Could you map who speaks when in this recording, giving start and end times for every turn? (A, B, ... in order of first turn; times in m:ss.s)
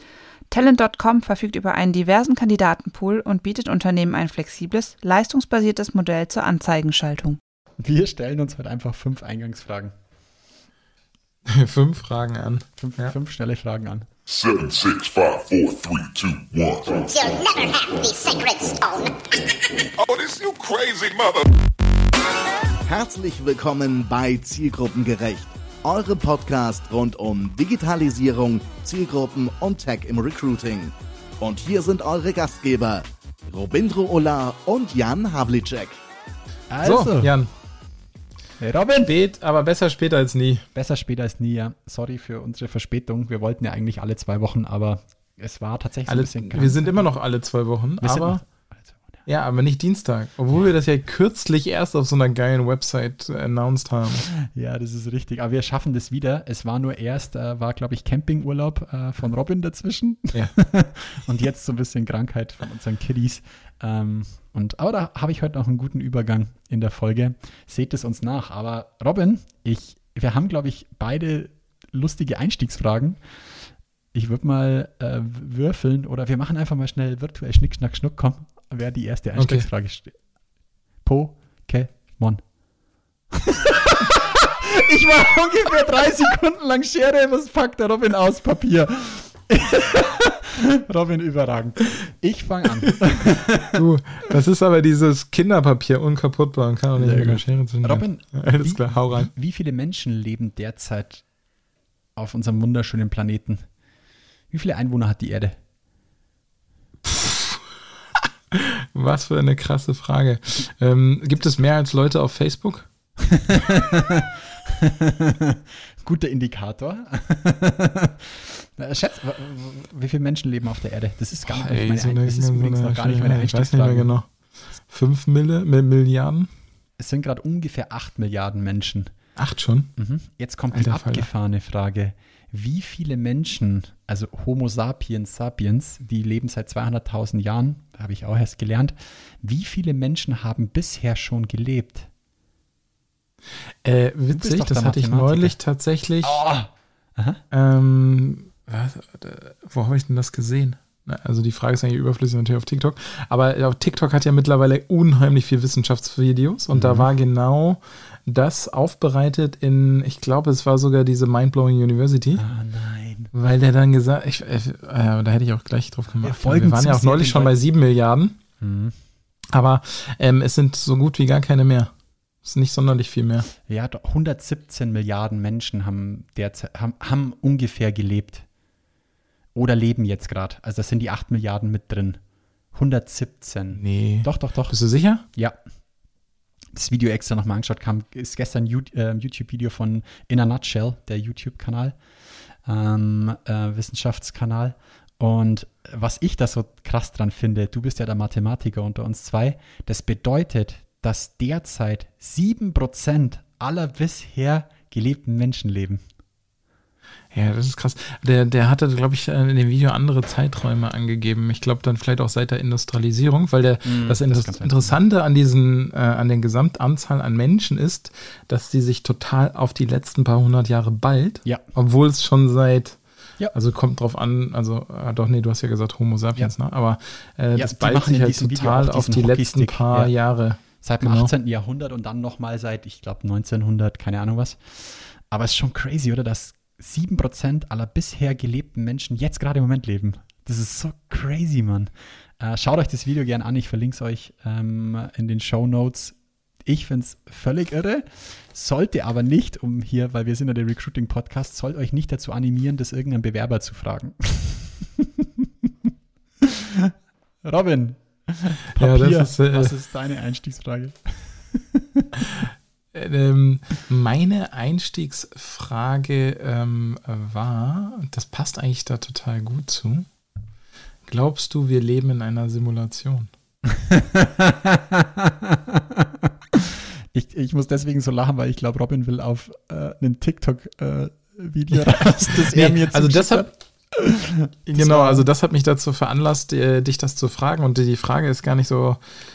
0:00.5-0:07.4 A
0:07.8-0:09.9 B
0:11.5-0:13.1 C
0:12.8-0:14.1 B
0:14.3-0:17.0 D
0:16.9-0:19.3 E
0:20.0-0:21.4 D
0:22.8-0:36.0 F
0:36.7-0:37.3 B
0:36.8-0:37.5 C
0:38.6-0:39.1 B
0:38.9-0:40.6 C
0:40.7-0:47.1 B
0:46.1-0:48.4 C
0:48.0-0:49.2 B
0:49.2-0:54.3 C
0:54.4-1:13.2 B
1:14.1-1:20.2 B
1:19.4-1:19.6 C
1:21.0-1:22.4 B
1:23.4-1:33.8 B
1:33.7-1:39.3 C
1:37.0-1:41.2 B
1:42.2-1:43.6 B
1:44.5-1:45.6 B
1:47.0-1:47.7 C
1:48.5-1:52.9 C
1:53.3-2:04.1 B
2:01.4-2:04.3 C
2:04.8-2:06.5 C
2:07.0-2:09.1 B
2:09.4-2:09.9 C
2:10.0-2:22.1 B
2:10.7-2:11.3 C
2:23.8-2:26.4 C
2:24.3-2:25.6 B
2:26.2-2:27.4 B
2:27.5-2:42.4 C
2:36.7-2:37.1 B
2:42.4-2:43.3 B
2:43.3-2:48.4 C
2:46.2-2:47.6 B
2:48.6-2:49.0 B
2:49.5-2:51.9 C
2:52.4-2:53.5 C
2:53.6-2:58.4 B
2:59.5-3:02.2 B
3:02.7-3:05.6 B
3:03.8-3:05.2 C
3:06.7-3:12.0 B
3:12.5-3:26.0 B
3:27.3-3:43.0 C
3:33.8-3:35.0 B
3:43.5-3:51.3 C
3:47.5-3:50.1 B
3:50.7-4:15.0 B
4:16.4-4:16.9 B
4:17.4-4:22.2 B
4:18.8-4:19.7 C
4:22.3-4:30.1 C
4:31.1-4:33.3 C
4:33.7-4:36.1 B
4:36.6-4:45.3 B
4:41.7-4:43.5 C
4:44.7-4:49.0 C